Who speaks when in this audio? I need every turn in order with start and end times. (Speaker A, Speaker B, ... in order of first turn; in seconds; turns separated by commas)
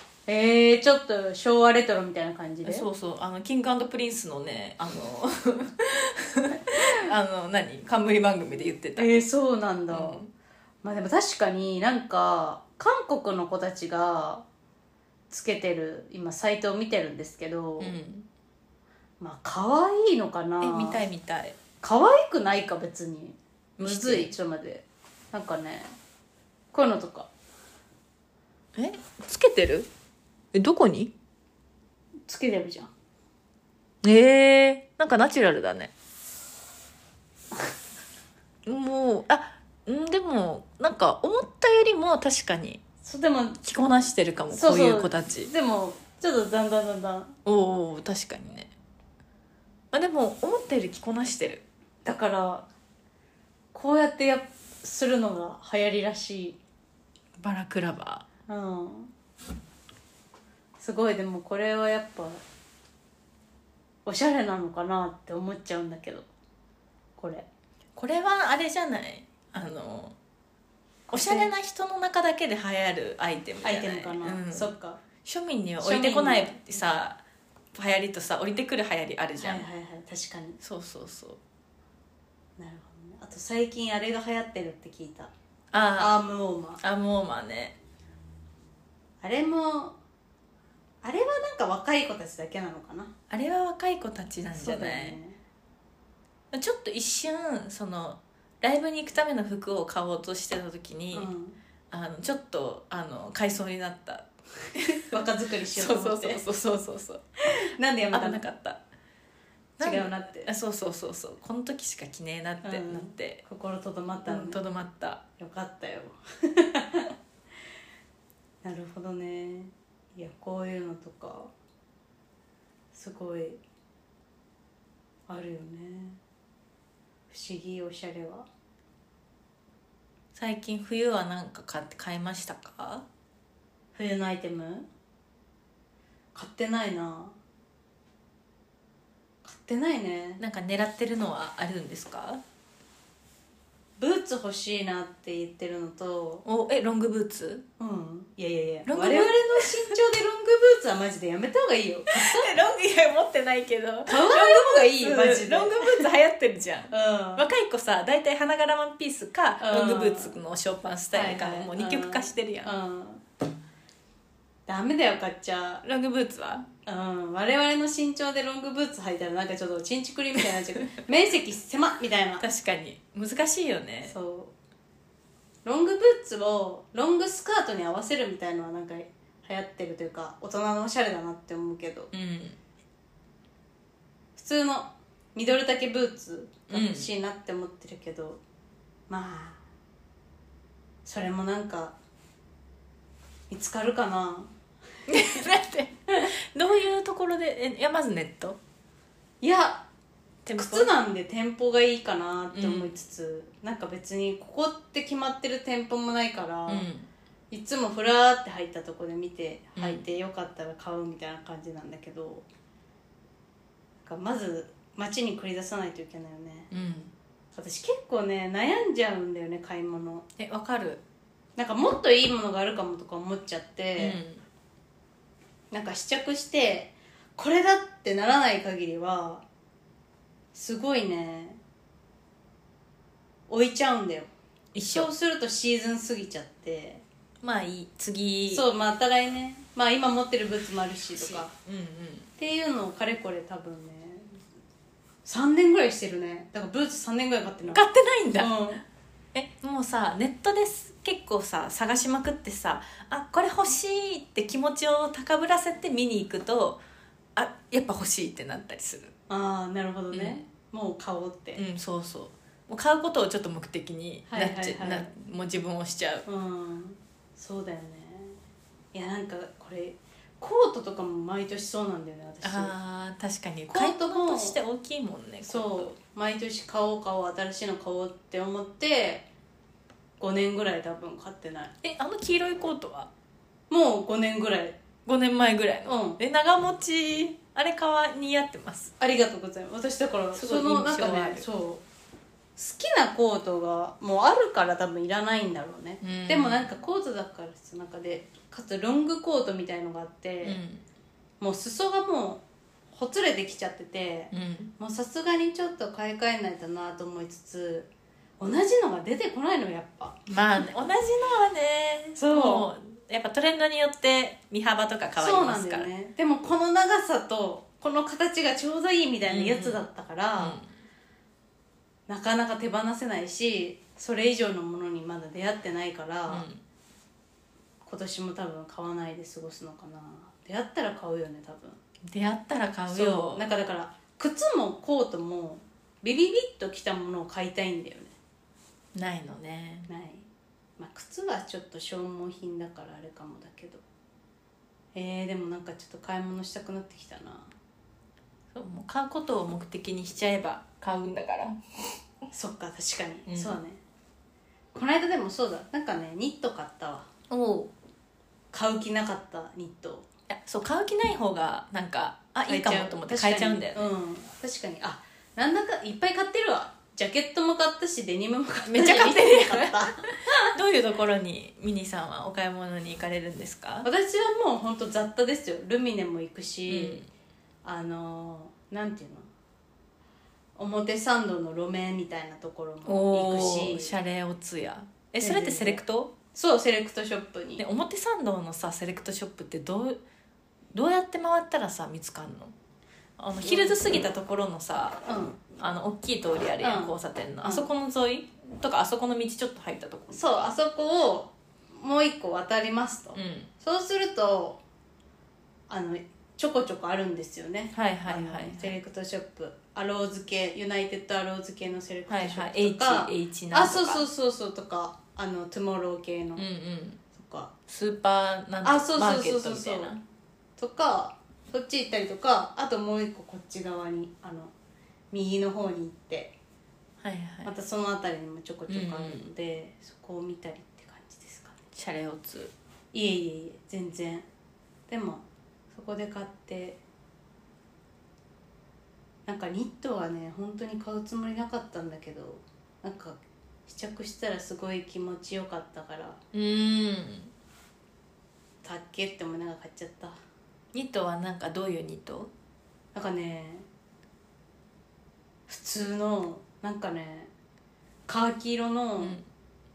Speaker A: 0.3-2.9, Speaker B: 2.6-9.1, Speaker A: 9.0-10.2, Speaker B: 9.9-10.3, Speaker A: 10.8-14.5, Speaker A: 15.3-18.0, Speaker B: 17.8-18.3, Speaker A: 19.2-21.1, Speaker B: 20.6-21.6, Speaker A: 21.8-25.9, Speaker B: 23.8-24.3, Speaker A: 26.7-27.3, Speaker B: 28.8-29.9, Speaker B: 30.5-31.1, Speaker A: 32.3-32.9, Speaker B: 34.0-35.9, Speaker B: 38.7-42.8, Speaker A: 43.0-43.6, Speaker B: 43.6-45.5, Speaker A: 44.5-47.4, Speaker B: 47.5-48.7, Speaker B: 49.9-51.6, Speaker A: 52.0-52.7, Speaker A: 53.7-56.6, Speaker B: 57.4-58.2, Speaker A: 58.5-59.1, Speaker A: 60.8-62.4, Speaker A: 64.1-66.3, Speaker A: 67.2-67.5, Speaker B: 68.0-70.2, Speaker A: 71.1-71.5, Speaker B: 71.1-74.7, Speaker A: 73.6-75.0, Speaker B: 75.2-77.2, Speaker A: 75.8-76.8, Speaker B: 77.7-79.7, Speaker A: 79.4-80.6, Speaker B: 80.6-81.4, Speaker A: 82.6-85.3, Speaker B: 85.7-86.2, Speaker A: 86.0-86.8, Speaker B: 86.8-87.8, Speaker A: 89.2-90.0, Speaker A: 91.0-93.1, Speaker B: 93.3-95.2, Speaker A: 94.5-95.4, Speaker B: 96.5-101.3, Speaker A: 101.1-101.6, Speaker B: 101.9-105.2, Speaker A: 105.1-106.5, Speaker B: 105.7-107.2, Speaker A: 107.5-108.5, Speaker B: 108.1-108.8, Speaker B: 109.8-113.4, Speaker A: 109.8-110.5, Speaker A: 112.6-114.6, Speaker B: 114.2-115.2, Speaker A: 115.4-117.1, Speaker A: 118.6-121.5, Speaker A: 122.9-123.6, Speaker A: 125.3-126.2, Speaker A: 127.3-128.5, Speaker B: 130.3-133.1, Speaker A: 133.9-134.9, Speaker A: 136.3-137.4, Speaker A: 139.4-140.4, Speaker B: 140.4-142.4, Speaker A: 144.0-146.4, Speaker B: 146.4-147.7, Speaker A: 147.8-152.5, Speaker B: 148.9-149.7, Speaker B: 152.1-162.7, Speaker A: 154.1-156.1, Speaker A: 156.9-157.5, Speaker A: 159.6-160.4, Speaker A: 161.1-163.2, Speaker A: 164.7-165.8, Speaker B: 165.8-166.7, Speaker A: 166.8-172.4, Speaker B: 172.4-174.1, Speaker A: 174.0-174.5, Speaker A: 175.6-182.1, Speaker B: 182.1-182.6, Speaker A: 184.4-188.4, Speaker B: 186.7-187.1, Speaker A: 189.1-189.6, Speaker A: 191.0-192.0, Speaker A: 193.5-194.5, Speaker B: 195.1-198.6, Speaker A: 199.4-199.8, Speaker B: 200.4-200.9, Speaker A: 200.6-206.9, Speaker B: 202.5-202.9, Speaker B: 206.7-207.1, Speaker A: 207.5-212.5, Speaker B: 209.8-210.0, Speaker A: 214.0-216.7, Speaker B: 216.7-217.1, Speaker A: 217.5-220.3, Speaker B: 220.4-221.0, Speaker A: 221.6-224.2, Speaker B: 224.0-224.4, Speaker A: 225.7-229.4, Speaker A: 230.5-231.6, Speaker A: 233.5-237.0, Speaker B: 234.7-235.1, Speaker B: 237.4-238.7, Speaker A: 238.5-241.5, Speaker B: 241.2-242.3, Speaker A: 242.4-244.4, Speaker A: 245.2-248.8, Speaker B: 247.7-248.6, Speaker B: 249.3-256.8, Speaker B: 257.4-259.1, Speaker A: 259.3-261.6, Speaker B: 260.1-260.4, Speaker B: 261.6-266.2, Speaker A: 264.3-265.1, Speaker A: 266.2-268.4, Speaker A: 268.9-272.8, Speaker B: 272.4-275.9, Speaker A: 273.7-274.6, Speaker A: 275.4-279.3, Speaker A: 280.2-281.7, Speaker B: 281.8-283.1, Speaker A: 283.7-284.8, Speaker B: 285.1-288.9, Speaker A: 285.9-286.2, Speaker A: 289.0-291.8, Speaker B: 290.3-291.5, Speaker A: 292.6-300.6, Speaker B: 296.0-296.7, Speaker B: 300.4-300.8, Speaker A: 301.4-307.9, Speaker B: 304.3-304.7, Speaker A: 308.4-310.2, Speaker B: 310.3-315.9, Speaker A: 312.2-312.7, Speaker A: 315.2-320.6, Speaker B: 319.3-319.8, Speaker B: 320.4-320.7, Speaker A: 322.1-326.5, Speaker B: 326.3-326.6, Speaker A: 327.8-331.8, Speaker B: 332.1-333.4, Speaker A: 332.9-338.1, Speaker B: 338.9-339.9, Speaker A: 339.9-340.3, Speaker A: 340.8-343.8, Speaker A: 344.9-347.5, Speaker B: 348.5-351.6, Speaker A: 352.3-353.8, Speaker B: 353.3-353.6, Speaker A: 354.7-357.1, Speaker B: 357.3-357.7, Speaker A: 358.5-360.1, Speaker B: 360.3-363.9, Speaker A: 362.5-370.5, Speaker B: 368.7-373.9, Speaker A: 373.8-377.0, Speaker B: 376.7-377.1, Speaker A: 377.6-379.3, Speaker A: 380.6-383.9, Speaker B: 382.9-386.1, Speaker A: 385.2-385.8, Speaker A: 386.3-387.6, Speaker B: 387.6-390.0, Speaker B: 390.7-392.5, Speaker B: 393.2-395.0, Speaker A: 393.4-393.8, Speaker A: 395.1-395.4, Speaker B: 395.6-400.5, Speaker A: 396.6-397.7, Speaker A: 400.1-404.6, Speaker B: 403.1-403.5, Speaker A: 405.7-416.4, Speaker B: 407.7-408.8, Speaker B: 412.1-414.1, Speaker B: 416.4-417.0, Speaker A: 417.1-417.5, Speaker B: 417.7-420.0, Speaker A: 418.6-420.0, Speaker A: 420.6-424.5, Speaker A: 425.1-426.4, Speaker B: 427.0-427.5, Speaker A: 427.4-431.6, Speaker B: 428.7-429.3, Speaker B: 431.7-432.5, Speaker A: 432.9-434.3, Speaker A: 434.9-436.8, Speaker A: 439.3-446.2, Speaker B: 446.3-447.3, Speaker A: 448.6-450.2, Speaker B: 450.7-452.3, Speaker A: 452.9-453.7, Speaker A: 455.5-457.3, Speaker A: 458.1-459.2, Speaker B: 459.0-459.3